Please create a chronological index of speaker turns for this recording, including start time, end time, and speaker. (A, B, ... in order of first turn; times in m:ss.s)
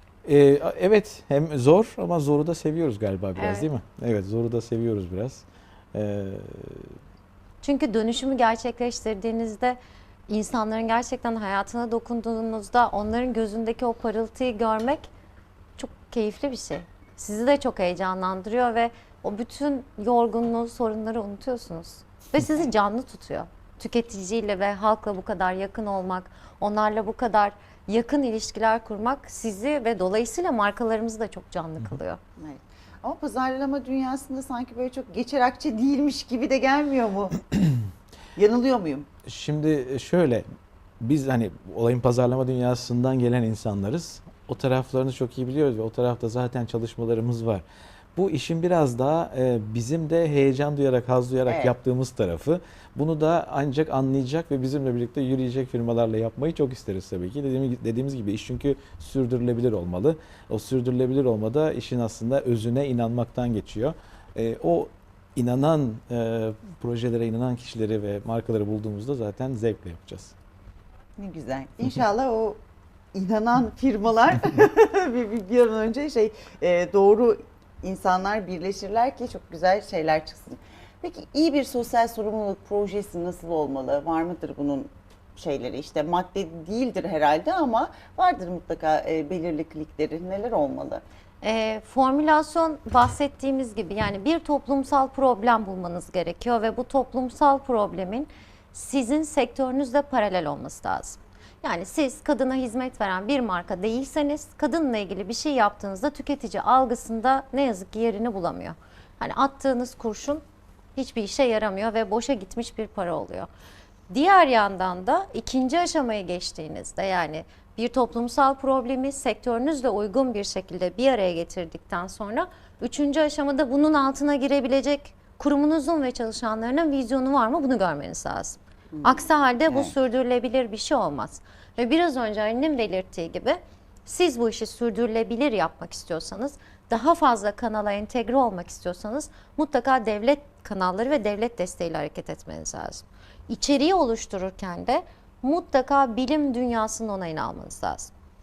0:00.2-0:06.9 A
0:03.4-0:03.7 B
0:07.6-0:15.1 B
0:15.8-0:32.2 B
0:32.4-0:37.5 C
0:38.4-0:39.1 C
0:39.3-0:40.4 A
0:41.0-0:47.6 A
0:48.2-1:10.4 A
0:51.5-0:51.8 C
1:11.2-1:12.6 C
1:13.1-1:31.0 C
1:31.4-1:50.4 B
1:51.0-1:53.5 B
1:54.1-2:28.1 B
2:08.9-2:09.9 C